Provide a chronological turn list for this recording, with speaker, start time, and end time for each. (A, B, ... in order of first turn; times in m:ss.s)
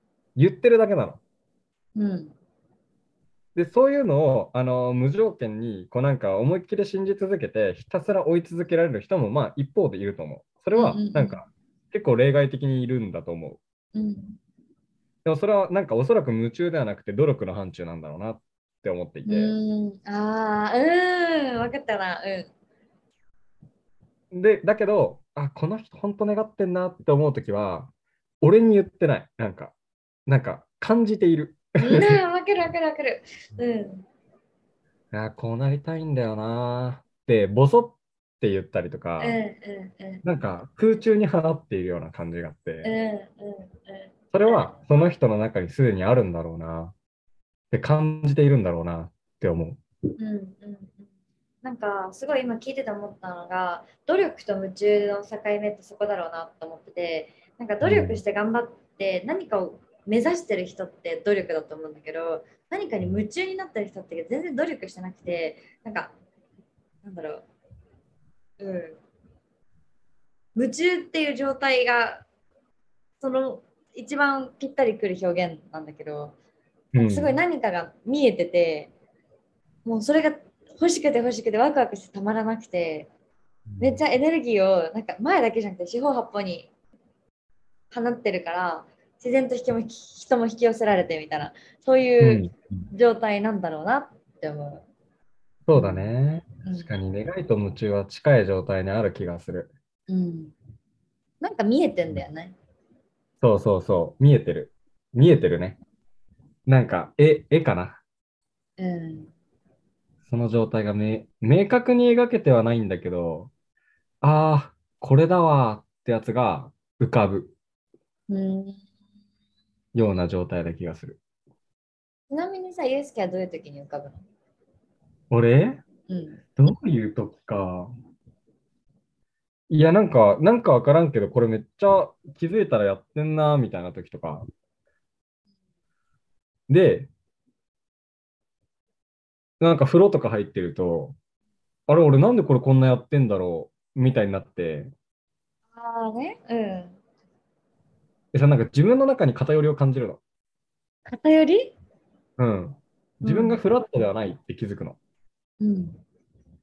0:00.4-0:01.2 A
0:02.0-0:02.3 B
0:03.6-0:13.6 A
0:10.7-0:11.4 B
0:13.9-0:14.4 B
0:15.2-0:19.5 A
0:19.3-0:22.5 B
0:24.3-0:27.9 A
0:28.4-0:29.8 A
0:30.3-0:32.2 A
0:31.8-0:34.1 B
0:35.1-0:39.4 A
0:39.2-0:40.2 B
0:40.2-0:42.9 A
0:42.8-0:44.1 B
0:44.3-0:47.0 A
0:47.7-0:49.8 A
0:50.2-0:51.1 B
0:51.6-1:06.1 B
0:57.8-0:58.2 A
1:07.0-1:07.5 B
1:08.6-1:09.0 B
1:10.6-1:12.2 B
1:13.2-1:16.4 B
1:16.9-1:17.4 A
1:17.0-1:18.9 B
1:19.8-1:23.1 B
1:23.7-1:24.0 A
1:23.8-1:26.7 B
1:27.9-1:34.8 B
1:32.2-1:32.9 A
1:35.7-1:39.7 A
1:35.7-1:36.1 B
1:36.6-1:36.9 B
1:40.1-1:40.5 B
1:41.4-1:42.6 B
1:43.4-1:45.8 A
1:46.7-1:48.0 A
1:48.8-1:49.3 B
1:50.3-1:53.5 A
1:54.2-1:57.5 A
1:58.3-1:58.8 B
1:59.9-2:01.2 A
2:02.3-2:04.2 B
2:05.3-2:05.8 A
2:06.1-2:06.4 B
2:06.6-2:07.9 A
2:09.7-2:14.4 A
2:16.7-2:17.1 A
2:19.6-2:21.2 A
2:21.9-2:24.9 A
2:25.7-2:27.0 B
2:28.3-2:30.2 A
2:31.1-2:31.8 B
2:32.4-2:35.0 A
2:33.2-2:33.6 B
2:35.6-2:36.0 B